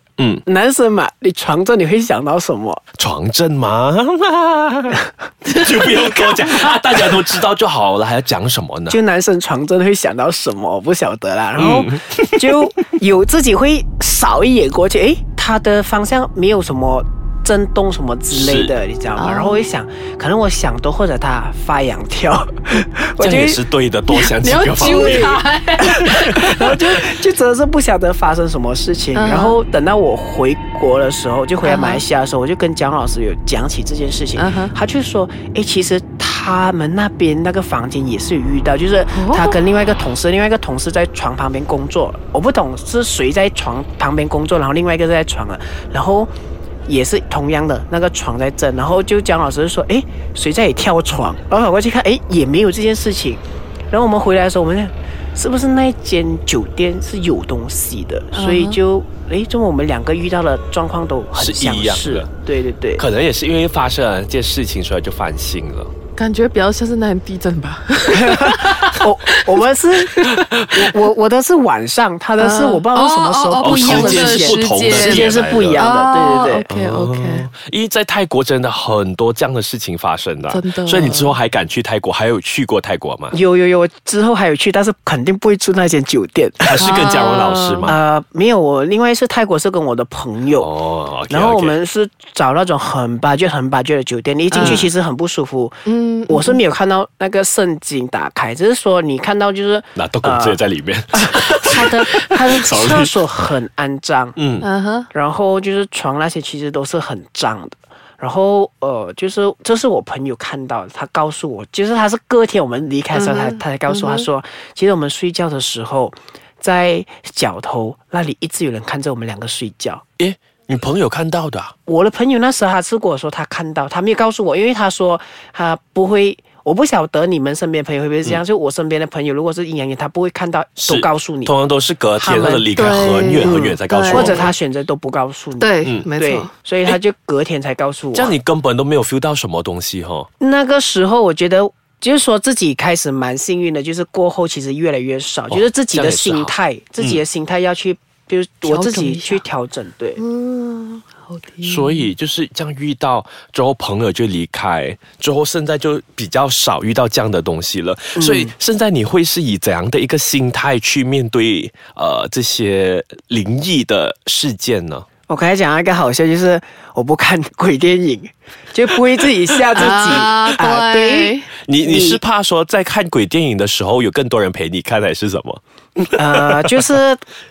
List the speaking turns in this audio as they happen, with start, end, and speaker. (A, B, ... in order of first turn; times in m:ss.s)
0:00.2-0:00.4 A
0:00.4-0:02.8 B
0:03.0-0:09.0 A
0:08.9-0:23.6 B
0:11.6-0:12.5 A
0:18.3-0:18.7 A
0:19.2-0:19.6 C
0:23.2-0:25.4 A
0:24.1-0:26.4 C
0:24.8-0:46.3 B
0:26.0-0:26.6 A
0:29.1-0:29.6 C
0:31.6-0:32.0 C
0:34.4-0:34.8 C
0:39.1-0:39.6 C
0:46.8-1:03.0 B
0:58.3-0:58.8 C
1:01.3-1:02.3 A
1:03.0-1:05.9 A
1:06.2-1:09.4 C
1:08.1-1:16.7 B
1:10.2-1:10.8 A
1:12.4-1:17.5 C
1:13.6-1:15.9 A
1:16.7-1:23.4 A
1:20.5-1:21.3 C
1:23.3-1:26.9 B
1:26.6-1:28.0 A
1:26.8-1:28.0 C
1:27.8-1:30.7 B
1:30.6-1:31.8 A
1:31.3-1:40.6 B
1:34.5-1:34.9 C
1:35.8-1:36.6 C
1:40.0-1:43.3 A
1:41.1-1:44.4 B
1:44.4-1:44.7 A
1:44.6-1:45.1 C
1:45.1-2:00.0 B
1:53.1-1:54.2 C
2:00.2-2:01.7 A
2:01.8-2:11.6 B
2:10.8-2:14.5 A
2:12.2-2:12.7 B
2:12.7-2:14.5 C
2:13.3-2:18.3 B
2:15.6-2:16.5 C
2:18.1-2:20.3 A
2:20.4-2:30.2 B
2:25.5-2:27.2 A
2:28.6-2:29.4 C
2:30.2-2:32.1 C
2:31.6-2:45.0 A
2:38.2-2:38.5 B
2:45.3-2:52.2 B
2:49.8-2:51.5 C
2:51.6-2:56.8 A
2:56.2-2:57.2 B